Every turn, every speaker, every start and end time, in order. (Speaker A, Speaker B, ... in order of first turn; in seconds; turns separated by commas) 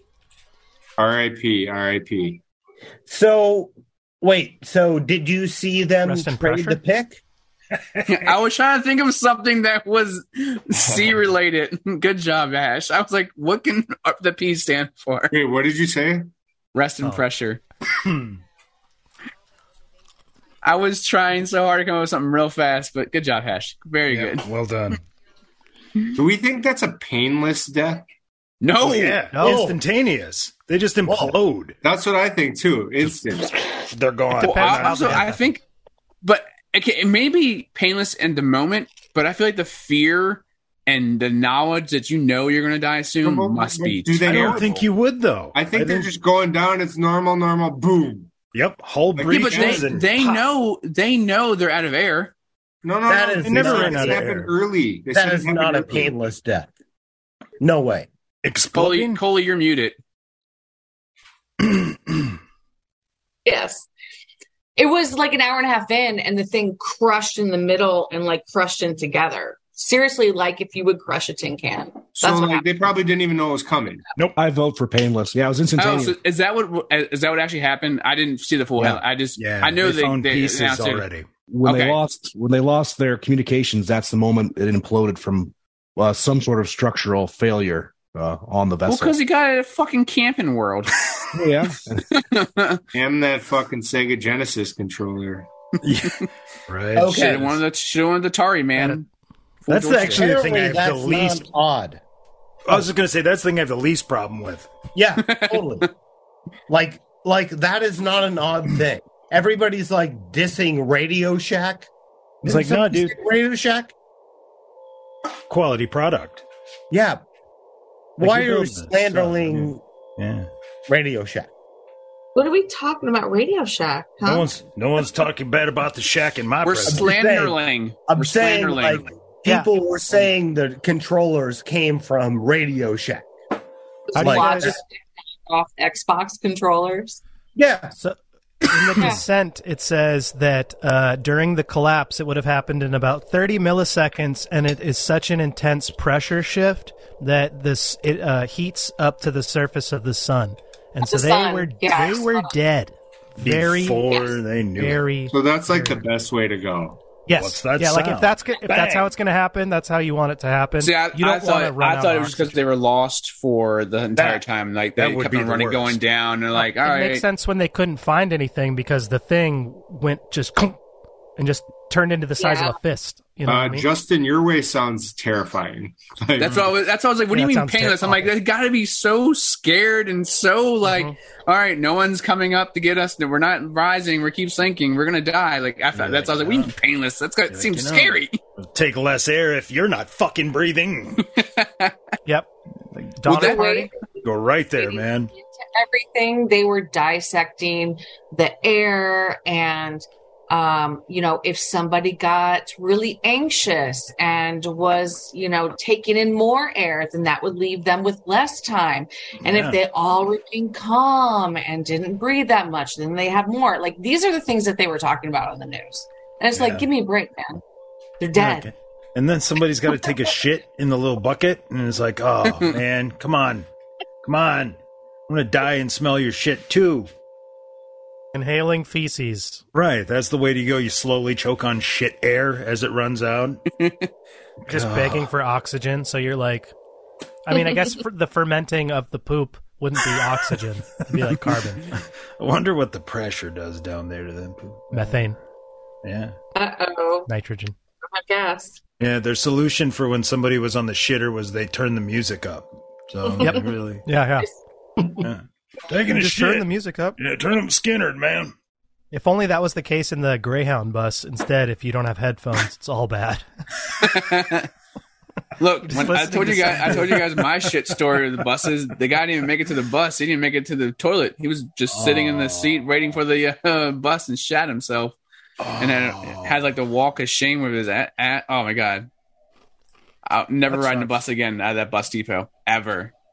Speaker A: 1.0-2.4, Speaker B: 3.1-3.7, Speaker B: 4.2-7.2, Speaker C: 6.0-6.8, Speaker D: 8.1-15.3, Speaker A: 15.3-16.3, Speaker D: 16.7-17.6, Speaker E: 18.0-18.3, Speaker D: 20.6-24.4, Speaker E: 24.1-25.0, Speaker A: 26.1-28.1, Speaker D: 28.6-29.2, Speaker E: 28.8-31.8, Speaker C: 29.3-29.7, Speaker B: 29.4-29.8, Speaker B: 31.1-31.3, Speaker A: 31.8-33.5, Speaker E: 33.1-35.3, Speaker C: 34.4-35.5, Speaker D: 34.4-35.6, Speaker D: 36.2-44.8, Speaker A: 43.2-44.8, Speaker E: 44.2-46.1, Speaker A: 45.5-48.3, Speaker E: 48.5-50.5, Speaker A: 49.1-49.9, Speaker D: 49.3-52.3, Speaker A: 52.8-56.1, Speaker B: 53.0-54.3, Speaker E: 53.4-54.5, Speaker B: 55.1-56.7, Speaker B: 57.6-58.1, Speaker E: 58.4-59.2, Speaker D: 58.7-60.0, Speaker E: 61.6-62.3, Speaker F: 63.4-63.9, Speaker F: 64.8-72.7, Speaker A: 72.1-74.0, Speaker G: 74.4-76.2, Speaker D: 75.8-81.0, Speaker E: 78.8-81.2, Speaker G: 81.5-89.2, Speaker D: 81.6-82.0, Speaker D: 88.9-91.0, Speaker G: 91.3-92.0, Speaker D: 92.1-92.8, Speaker A: 92.9-95.5, Speaker E: 95.8-97.2, Speaker B: 96.9-97.6, Speaker D: 97.1-99.0, Speaker C: 98.8-99.0, Speaker D: 99.7-100.3, Speaker E: 99.7-101.5, Speaker B: 100.0-102.0, Speaker E: 102.7-104.7, Speaker B: 104.9-105.9, Speaker D: 105.2-105.7, Speaker B: 106.7-111.9, Speaker E: 112.4-113.2, Speaker B: 112.4-113.9, Speaker E: 115.5-116.4, Speaker B: 116.9-117.2, Speaker B: 118.2-119.8, Speaker E: 118.2-120.5, Speaker B: 120.9-121.5, Speaker F: 122.3-124.5, Speaker E: 124.2-127.1, Speaker D: 126.6-129.1, Speaker B: 126.9-133.3, Speaker F: 134.1-134.9, Speaker C: 134.2-134.8, Speaker B: 134.2-134.8, Speaker F: 135.4-137.2, Speaker B: 137.6-137.9, Speaker C: 138.7-154.1, Speaker F: 139.0-139.2, Speaker F: 151.0-152.6, Speaker E: 153.4-155.0, Speaker F: 154.0-154.4, Speaker C: 154.8-156.0, Speaker A: 155.3-157.0, Speaker C: 157.2-162.6, Speaker E: 157.3-159.1, Speaker D: 160.8-167.2, Speaker B: 164.2-164.4, Speaker E: 165.0-166.0, Speaker C: 166.5-170.8, Speaker C: 171.4-173.9, Speaker F: 172.4-172.8, Speaker A: 173.4-176.7, Speaker D: 176.4-188.4, Speaker C: 177.3-178.3, Speaker C: 180.8-181.1, Speaker E: 185.9-186.7, Speaker E: 187.5-191.3, Speaker D: 191.3-191.9, Speaker C: 192.2-193.9, Speaker D: 193.3-193.6, Speaker F: 193.3-193.9, Speaker E: 194.2-195.3, Speaker F: 194.8-217.6, Speaker E: 209.4-209.8, Speaker E: 216.5-216.8, Speaker F: 218.2-218.7, Speaker E: 218.3-223.7, Speaker E: 224.2-224.8, Speaker E: 225.3-227.1, Speaker C: 228.3-229.6, Speaker E: 229.7-233.6, Speaker D: 233.8-234.1, Speaker E: 234.7-235.3, Speaker C: 234.7-236.7, Speaker C: 237.4-241.9, Speaker E: 241.9-245.2, Speaker C: 244.9-245.4, Speaker E: 246.0-246.3, Speaker F: 246.5-247.3, Speaker C: 247.3-247.8, Speaker F: 248.0-248.8, Speaker E: 249.0-254.1, Speaker F: 253.3-253.6, Speaker C: 253.4-254.5, Speaker E: 255.2-258.5, Speaker C: 256.0-257.2, Speaker C: 259.1-263.4, Speaker D: 264.0-264.7, Speaker D: 265.6-275.2, Speaker C: 265.8-267.5, Speaker E: 271.9-272.8, Speaker E: 275.6-276.6, Speaker D: 275.8-279.1, Speaker D: 280.2-283.1, Speaker E: 280.7-281.1